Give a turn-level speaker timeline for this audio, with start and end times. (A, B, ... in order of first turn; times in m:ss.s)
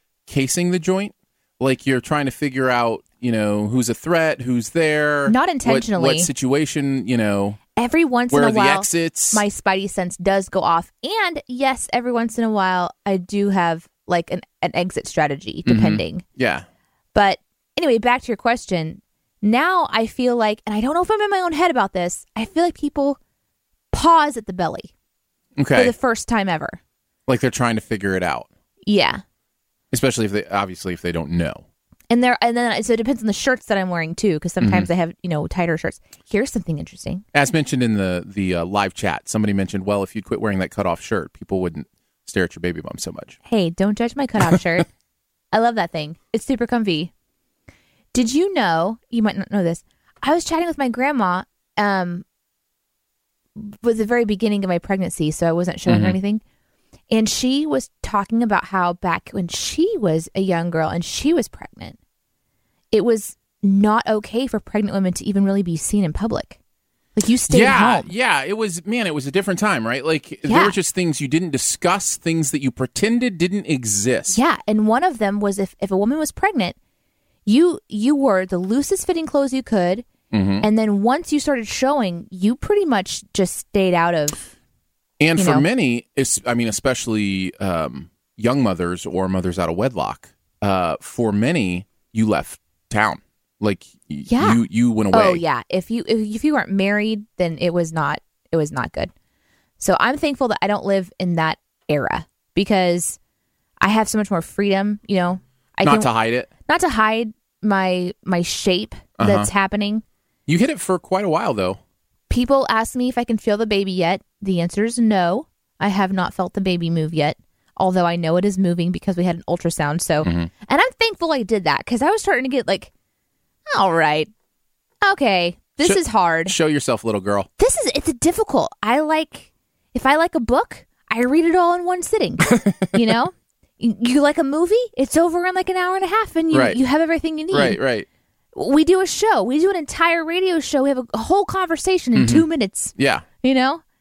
0:00.3-0:07.6 A
0:05.3-0:06.3 B
0:07.8-0:16.2 B
0:08.3-0:09.4 A
0:15.6-0:16.7 A
0:17.1-0:23.2 B
0:23.9-0:24.9 B
0:25.6-0:25.9 A
0:25.7-0:26.8 B
0:27.3-0:28.5 A
0:28.8-0:29.2 B
0:29.9-0:31.6 A
0:32.1-0:37.2 B
0:34.6-0:34.9 A
0:37.3-0:43.4 A
0:43.5-0:44.9 B
0:45.5-0:47.1 B
0:48.1-0:52.2 B
0:53.6-0:56.4 B
0:55.9-0:56.2 A
0:57.1-1:02.0 B
1:02.9-1:06.6 B
1:07.2-1:08.1 B
1:07.5-1:14.4 A
1:10.4-1:10.8 B
1:14.3-1:16.8 B
1:17.5-1:20.1 B
1:20.3-1:20.7 A
1:20.6-1:24.4 B
1:25.2-1:35.4 A
1:25.4-1:25.6 B
1:34.3-1:39.1 B
1:39.8-1:43.2 B
1:43.8-1:46.1 B
1:45.8-1:46.5 A
1:46.7-1:50.0 B
1:49.2-1:49.5 A
1:50.5-1:51.8 A
1:52.3-2:02.9 B
2:00.2-2:00.5 A
2:03.7-2:04.3 B
2:05.0-2:06.5 B
2:05.8-2:07.5 A
2:07.6-2:17.8 B
2:12.5-2:13.0 A
2:16.5-2:16.8 A
2:17.5-2:18.1 A
2:18.6-2:23.8 B
2:22.2-2:23.2 A